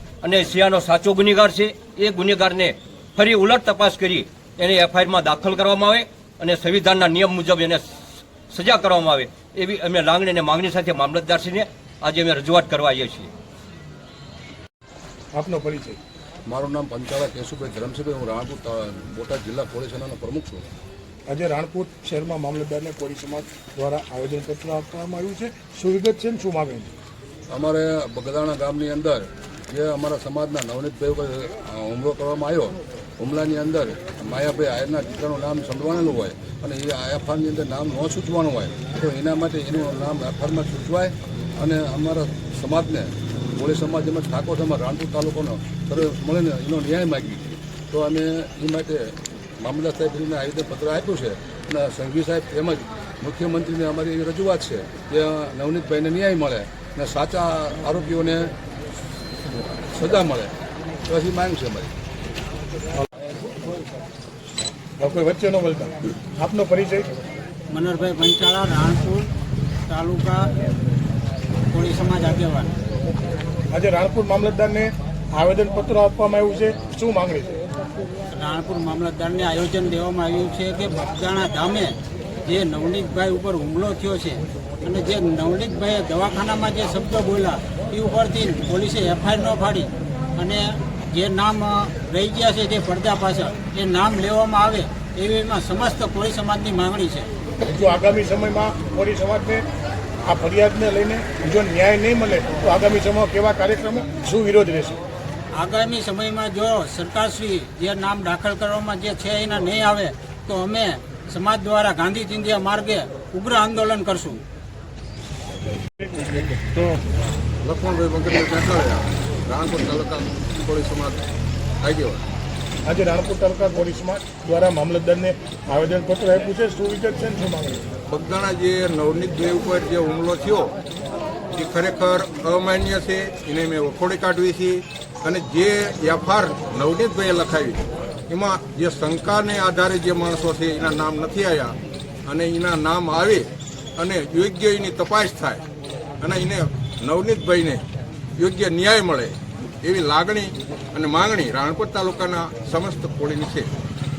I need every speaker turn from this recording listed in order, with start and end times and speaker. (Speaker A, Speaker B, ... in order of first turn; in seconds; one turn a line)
Speaker A: 0.2-13.3
Speaker B: 15.3-16.0
Speaker C: 16.5-20.7
Speaker B: 21.3-26.9
Speaker C: 27.5-58.5
Speaker C: 59.8-60.5
Speaker C: 61.1-61.9
Speaker B: 65.0-67.1
Speaker D: 67.7-69.3
Speaker D: 69.9-70.5
Speaker D: 71.7-72.7
Speaker B: 73.7-77.6
Speaker D: 78.3-97.3
Speaker B: 97.6-99.6
Speaker B: 100.2-105.0
Speaker D: 105.5-114.4
Speaker E: 117.6-121.2
Speaker E: 121.8-122.2
Speaker B: 122.9-127.8
Speaker E: 128.1-130.7
Speaker E: 131.5-141.8
Speaker E: 142.3-145.7
Speaker E: 146.2-147.8
Speaker E: 148.4-153.7